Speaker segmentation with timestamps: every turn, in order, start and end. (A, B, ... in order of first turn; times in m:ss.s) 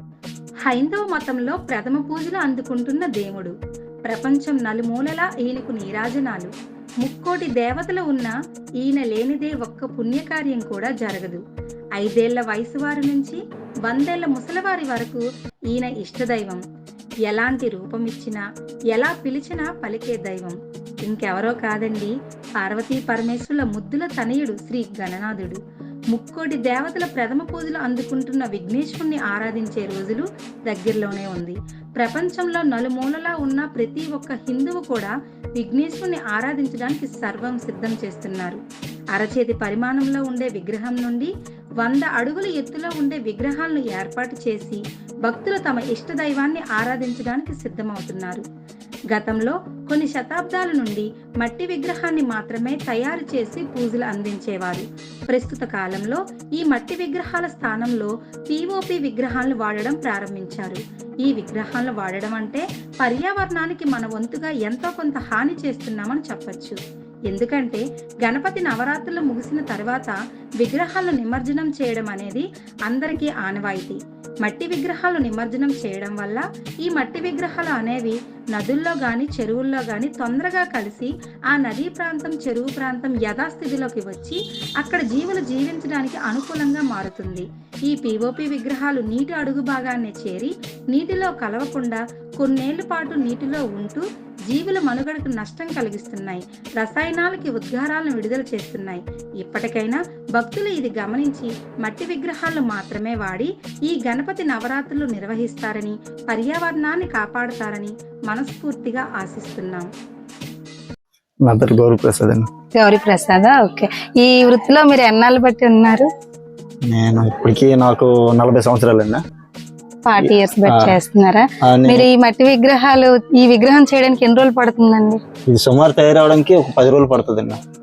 0:00.6-0:03.5 A
0:04.1-0:11.4 A
0:12.0-0:16.6 A
0:17.2-0:25.6 A
0:26.1-0:38.6 A
0:39.1-0:48.4 A
0:49.1-1:49.9 A
1:51.4-1:52.5 B
1:52.8-1:56.1 C
1:56.9-1:59.2 B
2:00.0-2:05.2 C
2:00.2-2:01.0 B
2:01.6-2:02.1 B
2:05.5-2:07.6 B